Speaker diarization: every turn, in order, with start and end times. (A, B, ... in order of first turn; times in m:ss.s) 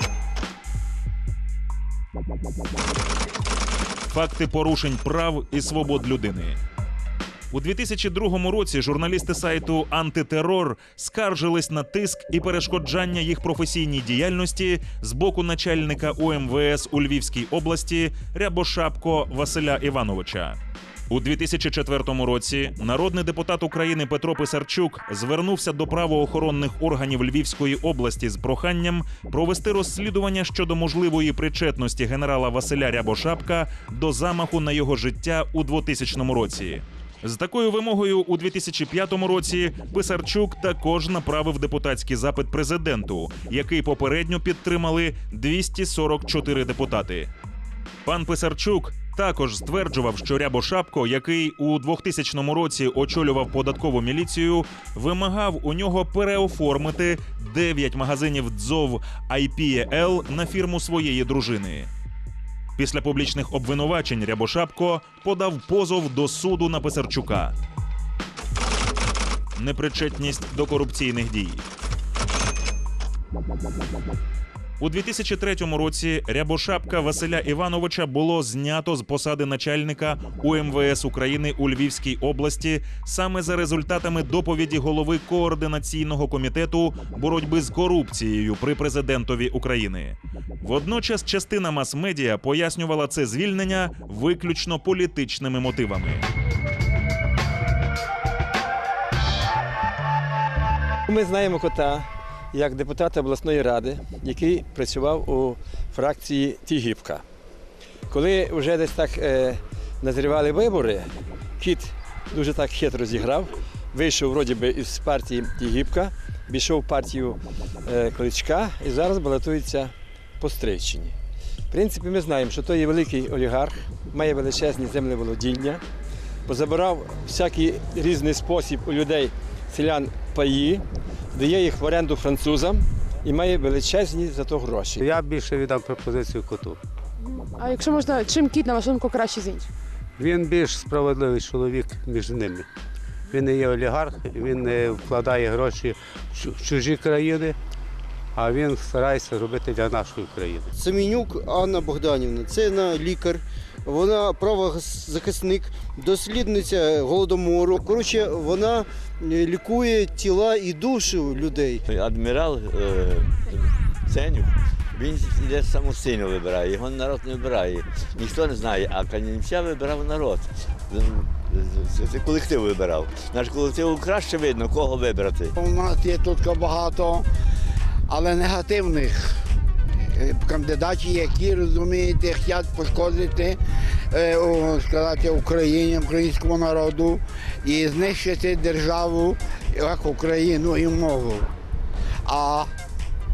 0:04.1-0:06.6 A
0:07.5-0:20.6 A
0:21.1-0:47.3 A
0:48.0-1:01.9 A
1:02.8-1:07.6 A
1:09.6-1:11.7 A
1:14.8-1:36.3 A
1:41.1-1:47.2 B
1:48.1-2:01.2 B
2:01.7-2:05.8 B
2:06.5-2:15.1 B
2:15.0-2:16.8 C
2:17.4-2:19.7 D
2:20.2-2:22.7 C
2:23.3-2:27.6 C
2:28.4-2:30.7 C
2:30.8-2:41.8 E
2:41.9-2:55.6 F
2:55.6-2:57.3 G
2:58.1-2:59.4 G
3:00.1-3:03.6 G
3:04.1-3:11.5 G
3:12.2-3:12.7 G